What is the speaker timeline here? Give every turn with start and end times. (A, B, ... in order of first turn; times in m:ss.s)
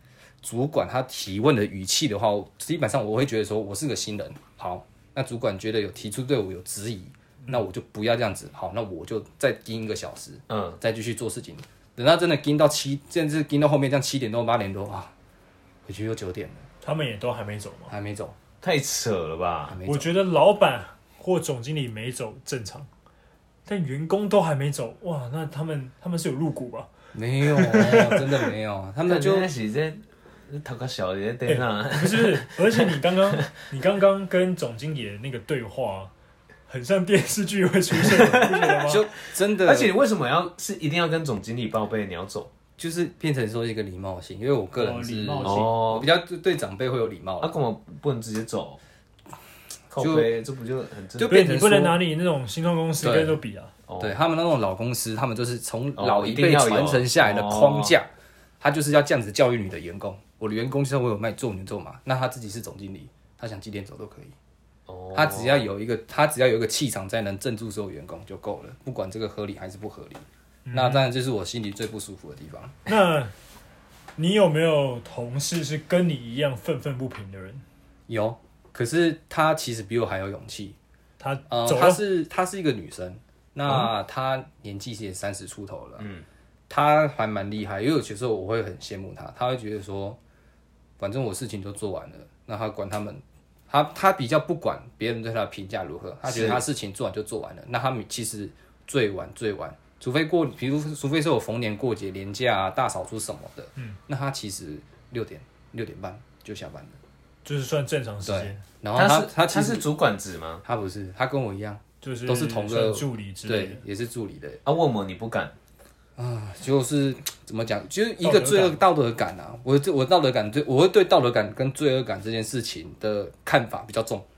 0:00.4-0:15.1 A
0:10.5-0:10.8 B
0:15.8-0:16.7 A
0:16.8-0:17.9 C
0:17.9-0:18.4 A
0:18.6-0:19.8 B
0:19.7-0:20.1 A
0:19.9-0:22.9 C
0:23.7-0:26.9 C
0:27.1-0:29.5 A
0:27.5-0:28.5 C
0:29.1-0:33.4 B
0:31.5-0:36.1 C
0:36.7-0:39.1 C
0:38.0-0:38.9 B
0:38.8-0:39.9 A
0:39.6-0:42.5 B
0:42.8-0:47.6 A
0:44.8-0:45.8 C
0:45.4-0:46.1 B
0:47.4-0:48.8 B
0:49.9-0:51.4 B
0:50.0-0:50.3 A
0:51.2-0:52.0 A
0:51.3-0:53.7 C
0:53.0-0:53.4 A
0:53.9-0:54.2 B
0:54.0-0:58.1 A
0:56.0-0:58.0 B
0:58.6-1:04.4 A
1:04.9-1:05.6 B
1:05.1-1:12.8 A
1:10.7-1:11.1 C
1:12.9-1:13.3 C
1:14.2-1:17.6 C
1:18.1-1:20.8 A
1:21.2-1:22.0 C
1:21.5-1:26.1 A
1:26.0-1:26.2 B
1:26.7-1:30.2 A
1:31.0-1:47.0 A
1:36.3-1:36.6 B
1:47.4-1:48.6 C
1:48.2-1:49.9 A
1:49.0-1:50.6 B
1:50.6-1:54.6 A
1:52.0-1:53.8 C
1:54.6-1:55.5 B
1:56.2-2:04.3 A
1:58.2-1:58.8 C